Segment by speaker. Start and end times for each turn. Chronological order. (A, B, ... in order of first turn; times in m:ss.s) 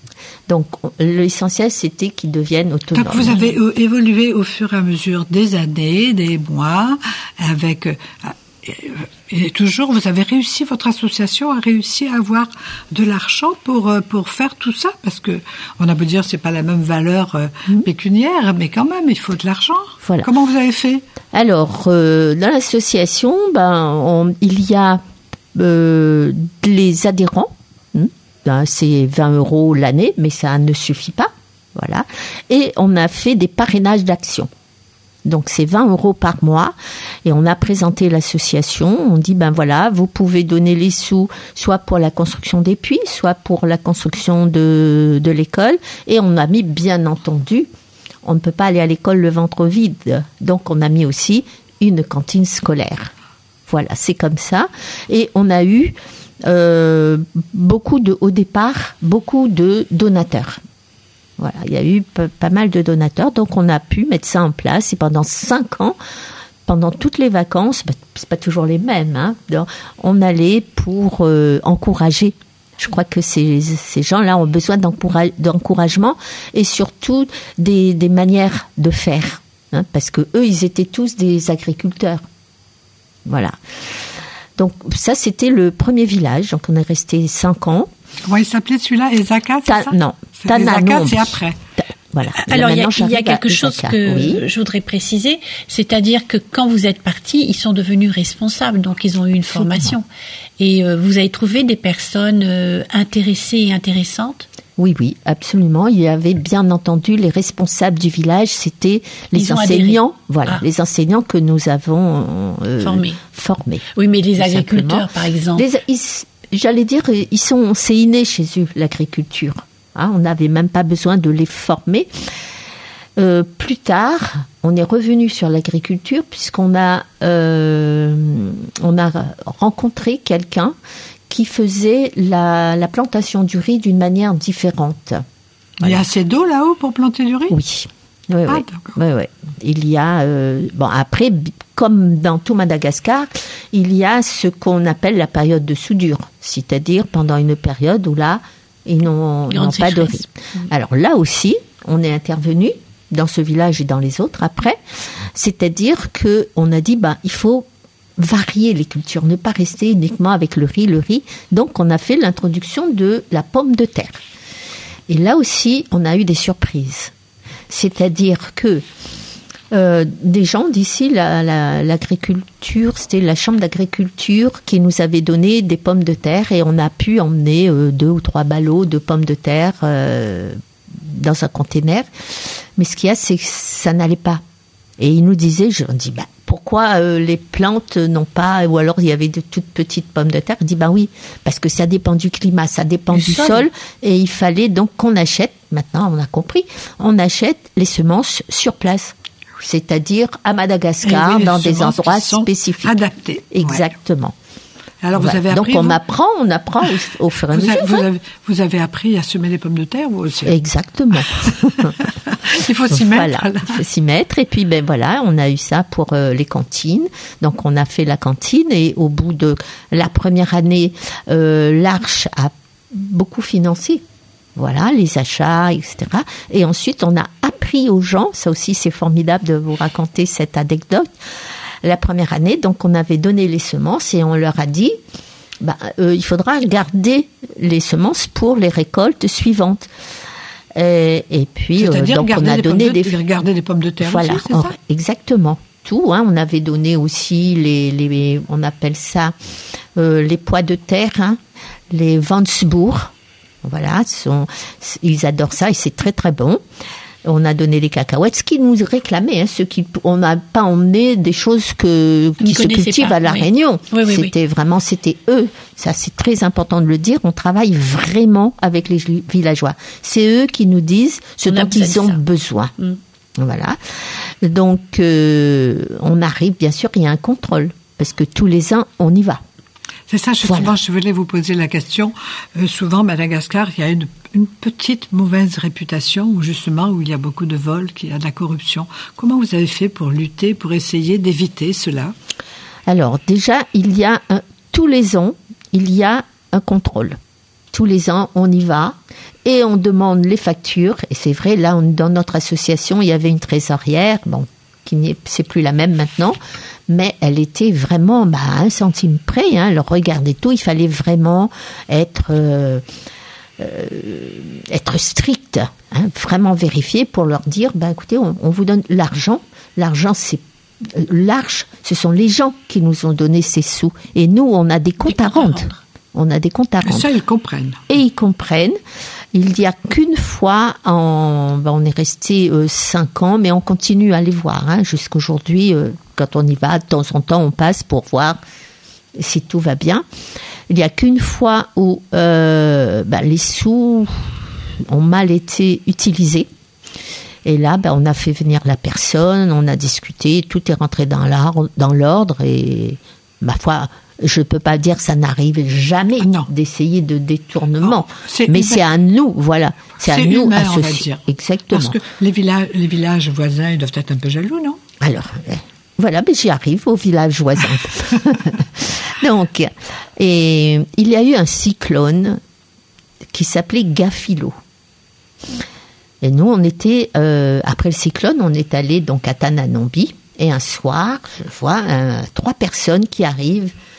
0:00.5-0:03.5 A
0:02.9-0:21.0 B
0:20.0-0:20.3 A
0:21.3-0:25.0 A
0:25.5-0:34.5 A
0:35.2-0:36.7 A
0:37.2-0:47.7 A
0:48.2-0:53.1 A
0:53.7-1:00.6 A
1:01.4-1:06.0 A
1:06.6-1:22.2 A
1:23.2-1:23.6 A
1:24.6-1:27.9 A
1:28.3-1:31.6 B
1:29.7-1:34.4 A
1:32.4-1:40.0 C
1:39.5-1:39.9 A
1:40.6-1:44.5 C
1:44.8-1:53.9 A
1:49.4-1:50.6 C
1:52.8-1:53.2 C
1:53.9-1:55.6 C
1:54.4-2:02.1 A
2:03.2-2:10.8 A
2:11.3-2:15.2 A
2:15.8-2:17.6 B
2:17.5-2:34.8 A
2:18.5-2:19.0 B
2:29.5-2:30.2 C
2:35.3-2:37.7 A
2:38.2-2:44.2 A
2:45.1-2:47.1 A
2:47.7-2:48.8 A
2:49.7-3:02.1 A
3:02.8-3:04.4 A
3:05.0-3:23.0 A
3:13.1-3:13.7 C
3:21.0-3:23.9 B
3:23.5-3:24.3 A
3:25.0-3:26.0 B
3:25.2-3:28.0 A
3:27.5-3:30.6 B
3:30.4-3:32.0 A
3:32.3-3:33.8 B
3:32.9-3:44.0 A
3:44.6-3:51.1 A
3:51.8-3:55.0 A
3:55.6-3:59.9 A
4:00.8-4:03.2 A
4:01.8-4:04.7 B
4:04.0-4:09.3 A
4:10.0-4:11.4 A
4:11.9-4:13.1 A
4:13.6-4:16.6 A
4:17.2-4:32.7 A
4:22.4-4:24.3 C
4:31.5-4:32.2 C
4:33.4-4:33.8 A
4:34.4-4:39.4 A
4:40.1-4:52.1 B
4:40.4-4:40.7 A
4:52.9-4:57.2 A
4:57.7-5:06.4 A
5:06.9-5:12.8 A
5:13.6-5:27.1 A
5:25.1-5:25.8 C
5:26.8-5:27.8 B
5:27.9-5:28.8 A
5:29.3-5:38.4 A
5:39.2-5:40.0 A
5:40.7-5:46.5 A
5:47.4-6:02.0 A
5:56.2-5:56.5 B
5:57.8-5:58.8 B
6:00.0-6:04.8 B
6:05.0-6:12.4 A
6:13.3-6:14.6 A
6:16.2-6:23.7 A